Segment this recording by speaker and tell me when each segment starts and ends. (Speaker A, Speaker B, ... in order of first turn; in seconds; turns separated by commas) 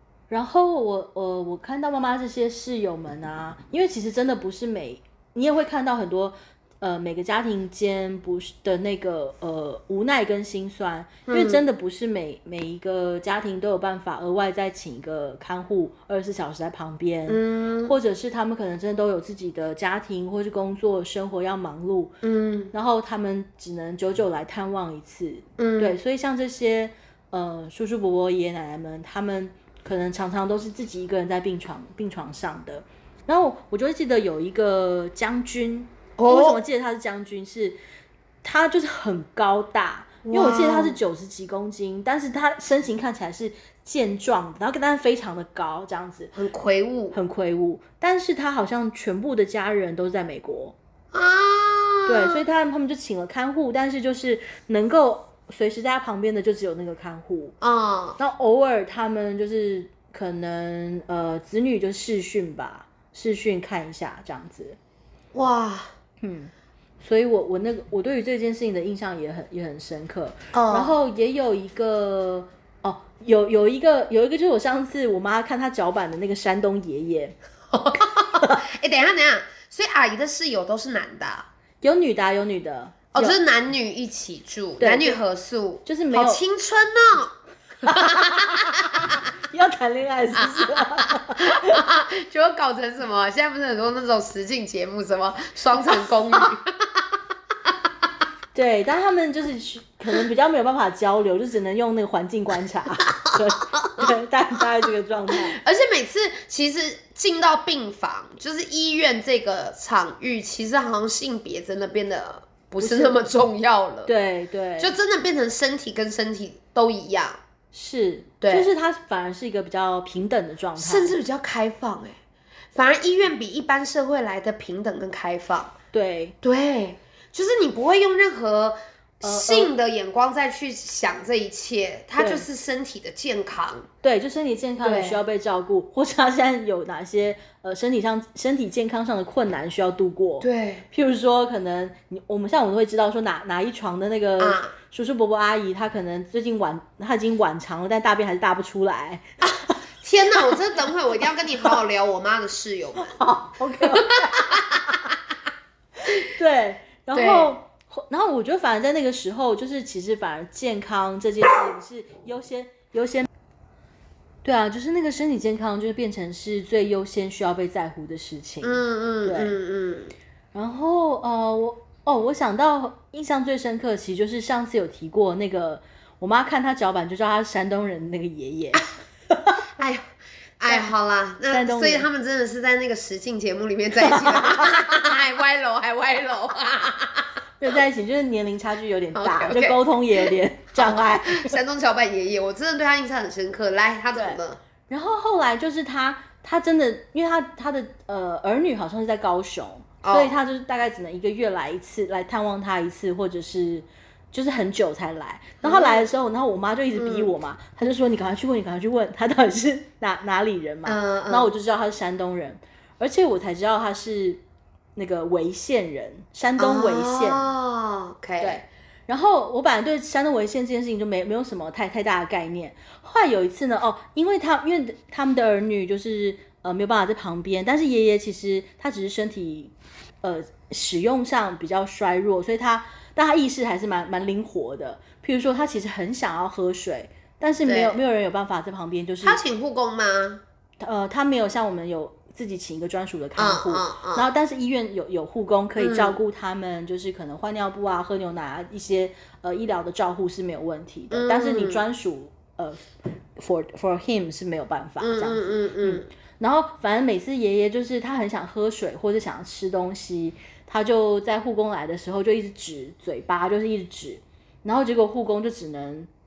Speaker A: 0.3-22.1, Speaker B: 11.3-11.6, Speaker B: 17.3-17.9, Speaker B: 22.2-22.7, Speaker A: 22.7-37.8, Speaker B: 25.6-26.0, Speaker B: 36.2-36.6, Speaker A: 38.4-46.3, Speaker B: 40.2-41.0, Speaker B: 46.4-47.2, Speaker A: 47.1-50.8, Speaker B: 51.1-52.4, Speaker A: 52.1-57.5, Speaker B: 57.6-58.2, Speaker A: 58.2-64.8, Speaker B: 65.3-65.9, Speaker A: 66.2-77.4, Speaker B: 70.5-71.0, Speaker B: 77.7-81.5, Speaker A: 81.8-83.4, Speaker B: 83.1-87.3, Speaker A: 84.8-85.2, Speaker A: 85.8-86.4, Speaker B: 87.9-89.0, Speaker A: 87.9-91.8, Speaker B: 90.4-90.7, Speaker B: 91.4-96.7, Speaker A: 98.5-105.6, Speaker B: 105.4-114.1, Speaker A: 112.8-113.2, Speaker A: 114.1-115.0, Speaker B: 114.8-117.4, Speaker A: 117.7-121.2, Speaker B: 118.4-118.7, Speaker B: 120.8-122.2, Speaker B: 122.7-125.8, Speaker A: 125.9-126.3, Speaker B: 126.4-133.9, Speaker A: 129.2-129.8, Speaker A: 132.2-132.5, Speaker A: 134.0-149.2, Speaker B: 134.8-135.2, Speaker B: 140.4-140.9, Speaker B: 144.4-144.7, Speaker B: 150.0-153.2, Speaker A: 153.0-154.5, Speaker B: 154.0-154.6, Speaker A: 156.2-163.3, Speaker B: 157.2-157.6, Speaker A: 164.4-169.6, Speaker B: 168.6-170.1, Speaker A: 170.5-179.5, Speaker B: 179.8-180.0, Speaker B: 180.6-187.3, Speaker A: 181.5-182.1, Speaker A: 187.6-191.6, Speaker B: 189.2-194.6, Speaker A: 194.1-214.4, Speaker B: 200.0-200.4, Speaker B: 205.6-206.1, Speaker B: 207.0-207.3, Speaker B: 210.9-211.5, Speaker A: 215.0-217.5, Speaker B: 216.6-218.6, Speaker A: 218.4-239.4, Speaker B: 237.7-238.0, Speaker B: 239.2-240.4, Speaker A: 240.8-266.1, Speaker B: 243.4-244.3, Speaker B: 245.8-246.2, Speaker B: 251.1-251.8, Speaker B: 255.0-256.1